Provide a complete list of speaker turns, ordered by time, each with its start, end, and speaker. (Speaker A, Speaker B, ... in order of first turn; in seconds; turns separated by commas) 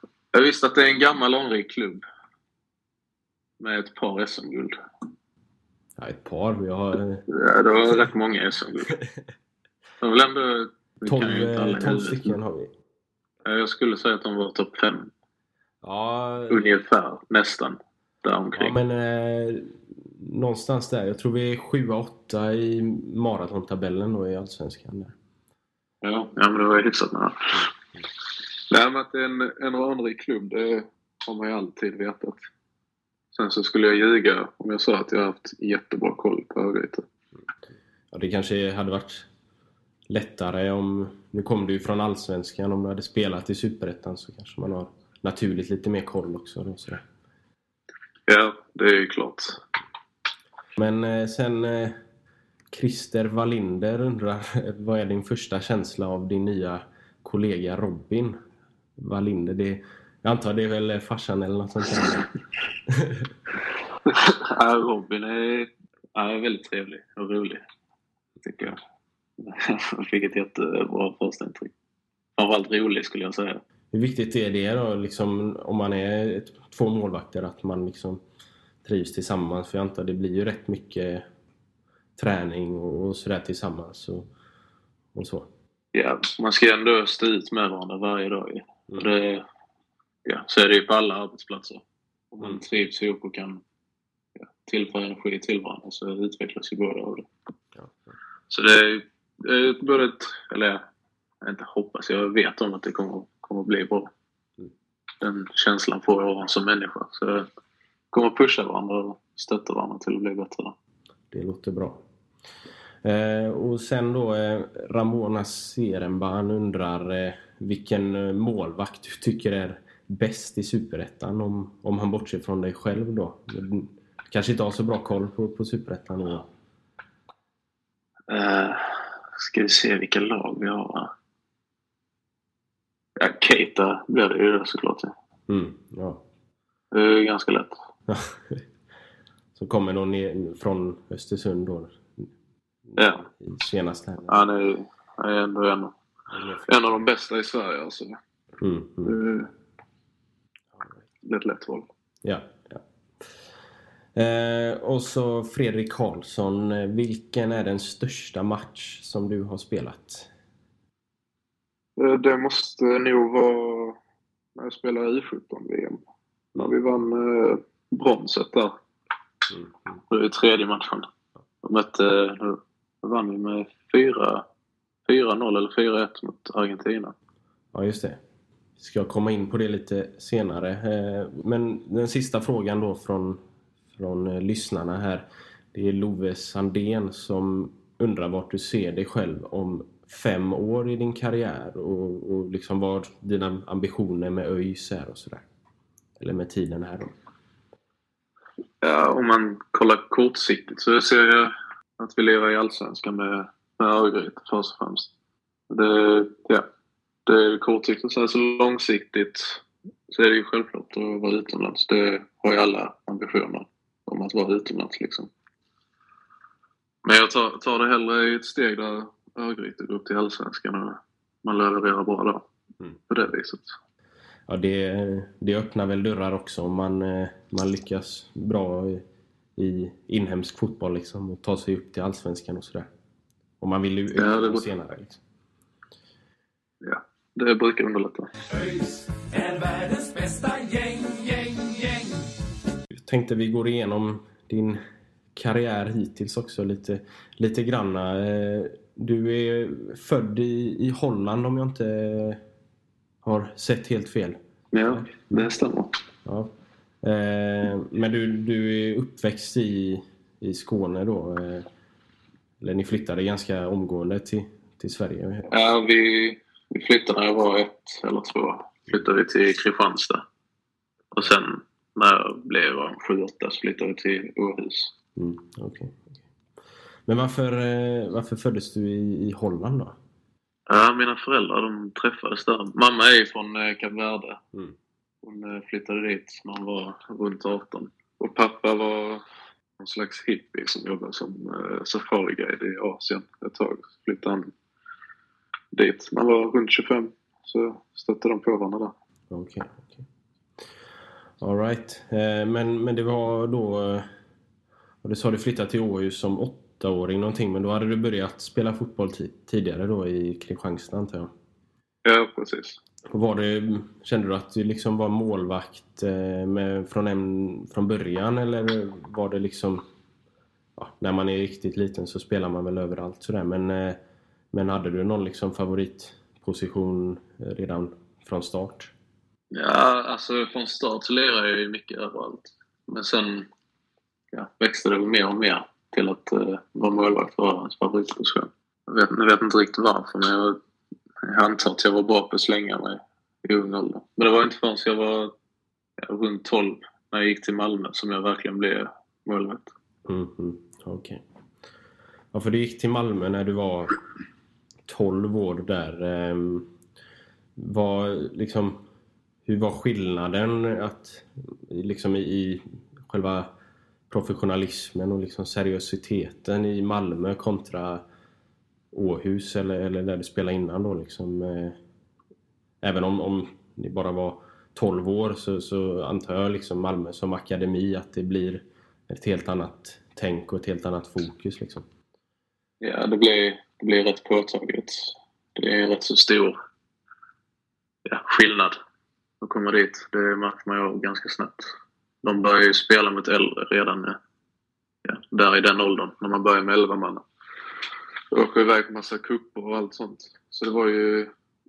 Speaker A: 0.3-2.0, Speaker A: 3.6-4.8, Speaker B: 6.0-7.2, Speaker A: 7.3-9.0, Speaker A: 10.0-12.4, Speaker B: 11.1-12.7, Speaker A: 13.4-15.1, Speaker B: 15.8-16.6, Speaker A: 16.5-18.8, Speaker B: 18.6-25.1, Speaker A: 26.0-27.7, Speaker A: 28.7-32.5, Speaker A: 33.3-37.1, Speaker B: 38.1-39.3, Speaker B: 40.1-47.0, Speaker A: 48.3-49.6, Speaker B: 50.8-52.0, Speaker B: 52.7-58.4, Speaker B: 59.0-62.3, Speaker B: 62.9-63.3, Speaker A: 64.1-67.6, Speaker A: 68.4-68.8, Speaker A: 69.4-71.7, Speaker A: 72.4-73.6, Speaker B: 73.9-78.2, Speaker B: 78.8-81.3, Speaker B: 82.2-84.3, Speaker B: 85.1-85.5, Speaker A: 85.9-89.5, Speaker A: 90.2-93.6, Speaker A: 94.4-97.3, Speaker B: 97.8-98.1, Speaker A: 98.5-100.8, Speaker A: 101.4-104.1, Speaker A: 105.2-107.5, Speaker A: 108.1-110.8, Speaker B: 111.3-112.0, Speaker B: 113.0-126.5, Speaker A: 128.3-131.1, Speaker A: 133.2-135.1, Speaker B: 135.5-136.2, Speaker A: 136.9-137.7, Speaker B: 138.1-138.6, Speaker B: 139.6-142.3, Speaker B: 142.9-144.5, Speaker A: 143.0-143.2, Speaker A: 144.3-145.9, Speaker B: 146.3-147.0, Speaker A: 146.7-148.2, Speaker B: 148.6-149.2, Speaker A: 149.1-149.5, Speaker A: 151.2-151.9, Speaker B: 152.2-152.8, Speaker B: 154.2-160.3, Speaker A: 162.0-164.0, Speaker A: 164.6-166.0, Speaker A: 166.6-168.8, Speaker A: 170.1-171.1, Speaker A: 171.6-174.4, Speaker A: 175.1-177.2, Speaker B: 177.7-178.2, Speaker B: 178.8-183.4, Speaker B: 183.9-195.5, Speaker B: 196.2-197.1, Speaker A: 198.8-205.1, Speaker A: 205.7-206.7, Speaker A: 207.3-215.3, Speaker A: 217.0-222.5, Speaker A: 223.1-223.8, Speaker B: 224.5-229.0, Speaker B: 229.6-232.9, Speaker B: 233.6-235.2, Speaker A: 234.2-234.7, Speaker A: 236.8-238.3, Speaker C: 238.5-242.3, Speaker B: 243.0-244.8, Speaker B: 245.3-252.4, Speaker B: 253.2-255.4, Speaker A: 254.7-255.9, Speaker B: 256.2-256.5, Speaker B: 257.0-261.7, Speaker B: 262.6-265.5, Speaker A: 265.5-270.2, Speaker A: 271.1-274.9, Speaker B: 275.2-276.1, Speaker B: 277.1-280.0, Speaker A: 280.7-284.4, Speaker A: 285.2-289.2, Speaker A: 289.8-294.5, Speaker A: 295.7-298.9, Speaker B: 299.3-300.1, Speaker B: 301.4-304.1, Speaker B: 305.0-311.3, Speaker A: 312.1-312.8, Speaker B: 313.1-319.8, Speaker B: 320.8-324.0, Speaker B: 324.5-328.9, Speaker A: 329.5-333.5, Speaker A: 334.3-340.6, Speaker A: 341.2-345.3, Speaker A: 346.0-349.7, Speaker B: 350.1-351.2, Speaker B: 352.3-354.0, Speaker B: 354.9-356.7, Speaker B: 357.6-358.8, Speaker B: 359.5-363.5, Speaker B: 364.1-368.0, Speaker B: 368.9-371.8, Speaker B: 372.8-381.9, Speaker A: 382.8-386.6, Speaker A: 388.1-388.8, Speaker A: 389.4-391.7, Speaker A: 392.2-394.2, Speaker A: 395.1-397.2, Speaker A: 398.3-401.3